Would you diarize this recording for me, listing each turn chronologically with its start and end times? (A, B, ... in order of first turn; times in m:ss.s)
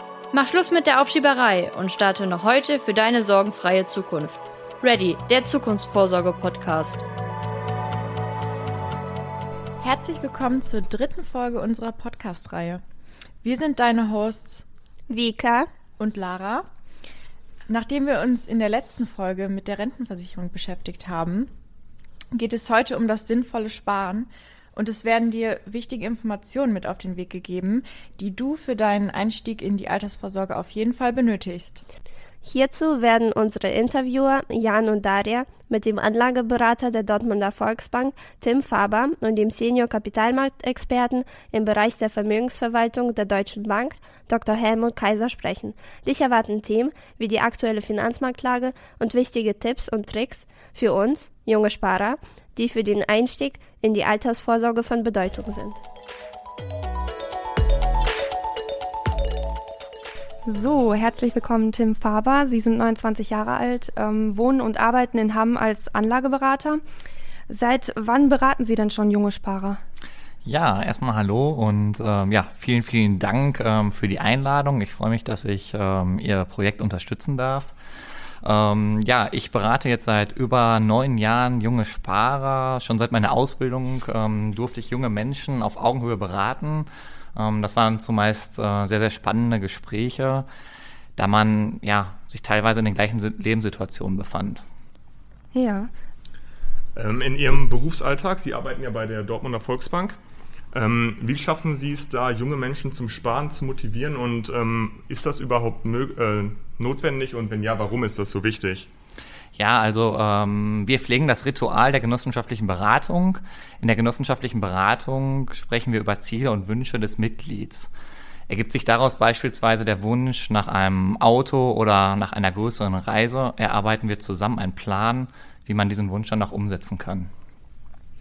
0:00.3-0:07.0 A
0:09.8-0:12.8 B
0:13.4-0:14.6 B
0:15.1-0:15.7 C
0:16.0-0:16.7 B
0:17.7-0:21.5 B
0:22.3-0:31.8 B
0:32.4-0:55.8 C
1:00.5-1:06.8 D
1:07.5-1:09.8 D
1:10.4-1:17.7 E
1:18.4-1:30.5 E
1:31.2-1:34.6 E
1:35.5-1:35.9 D
1:37.0-1:40.2 F
1:40.7-1:48.9 F
1:49.6-1:57.9 E
1:58.5-2:07.3 E